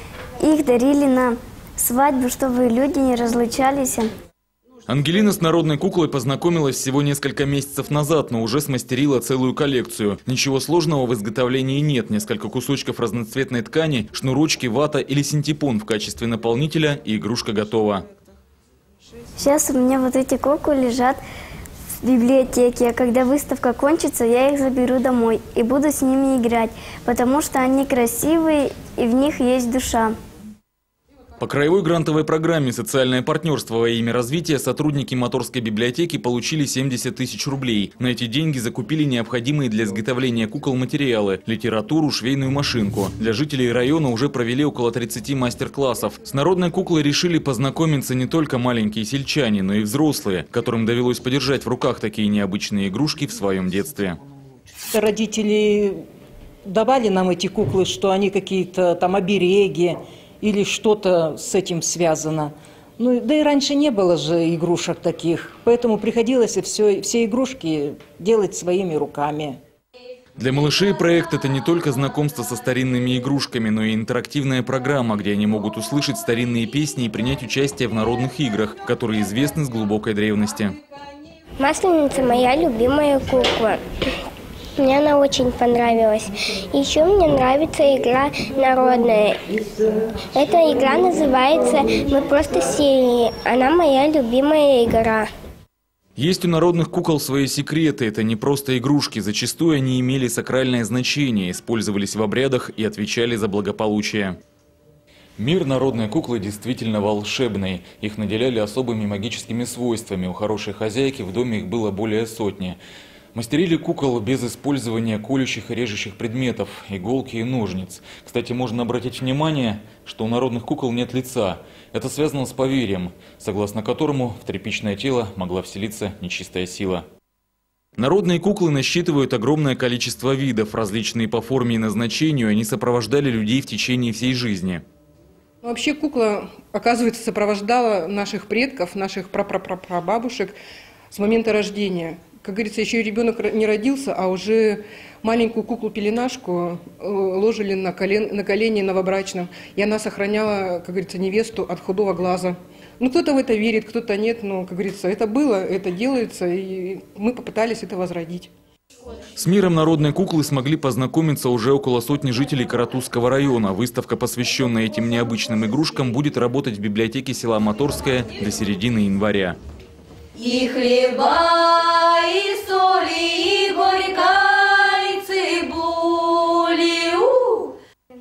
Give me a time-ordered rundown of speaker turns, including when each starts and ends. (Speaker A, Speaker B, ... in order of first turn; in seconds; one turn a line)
Speaker A: 0.4-4.1
Speaker B: 4.9-18.0
Speaker A: 19.4-21.2
Speaker A: 22.0-30.1
Speaker B: 31.4-54.2
Speaker C: 54.9-56.0
Speaker C: 56.6-69.6
Speaker B: 70.4-80.8
Speaker D: 81.6-83.8
Speaker D: 84.8-89.4
Speaker D: 90.3-95.3
Speaker B: 96.2-104.4
Speaker B: 105.4-112.8
Speaker B: 113.3-127.0
Speaker B: 128.0-134.8
Speaker E: 135.6-140.6
Speaker E: 141.1-158.5
Speaker B: 159.3-169.6
Speaker F: 170.4-177.7